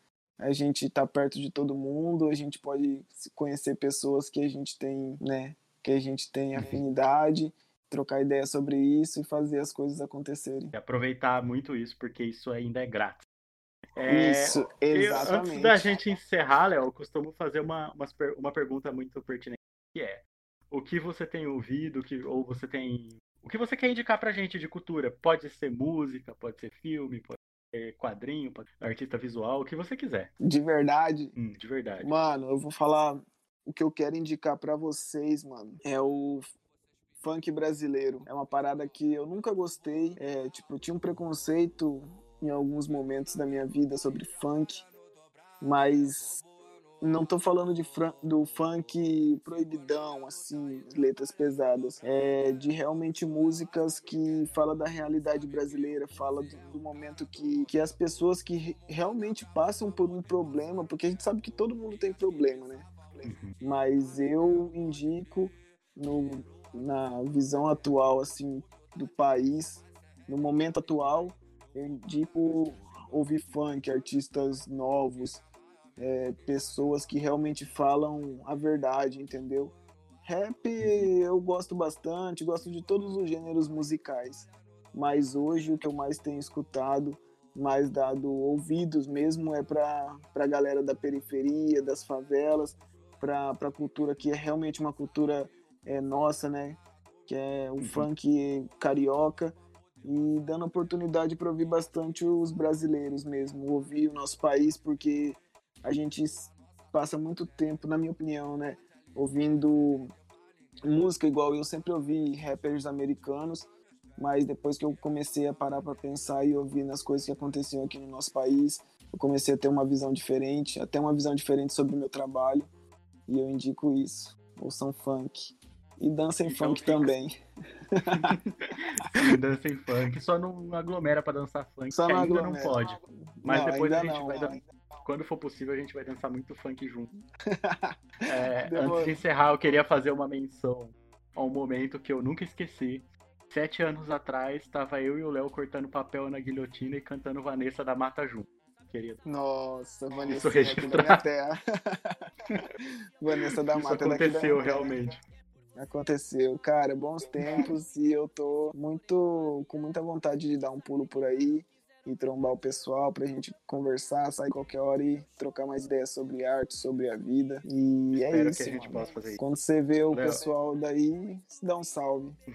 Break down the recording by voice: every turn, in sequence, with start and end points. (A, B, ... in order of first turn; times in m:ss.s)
0:00.4-0:10.7 A
0:06.5-0:06.8 B
0:10.7-0:13.2 B
0:14.0-0:30.3 B
0:14.1-0:16.0 A
0:30.4-0:31.4 A
0:31.4-0:32.1 B
0:32.0-0:36.5 A
0:37.2-0:44.9 A
0:45.6-0:46.4 A
0:47.0-1:15.4 A
1:03.2-1:03.6 B
1:16.0-1:50.1 A
1:20.8-1:21.1 B
1:37.8-1:38.1 B
1:50.8-2:02.7 A
2:03.3-2:07.4 A
2:06.4-2:07.1 B
2:07.9-2:08.3 A
2:08.1-2:17.1 B
2:11.9-2:12.8 A
2:13.4-2:14.6 A
2:17.4-2:19.2 A
2:18.2-2:29.2 B
2:29.2-2:35.0 A
2:30.3-2:31.2 B
2:33.6-2:35.2 B
2:35.8-2:52.4 A
2:48.1-2:49.4 B
2:50.1-2:50.4 B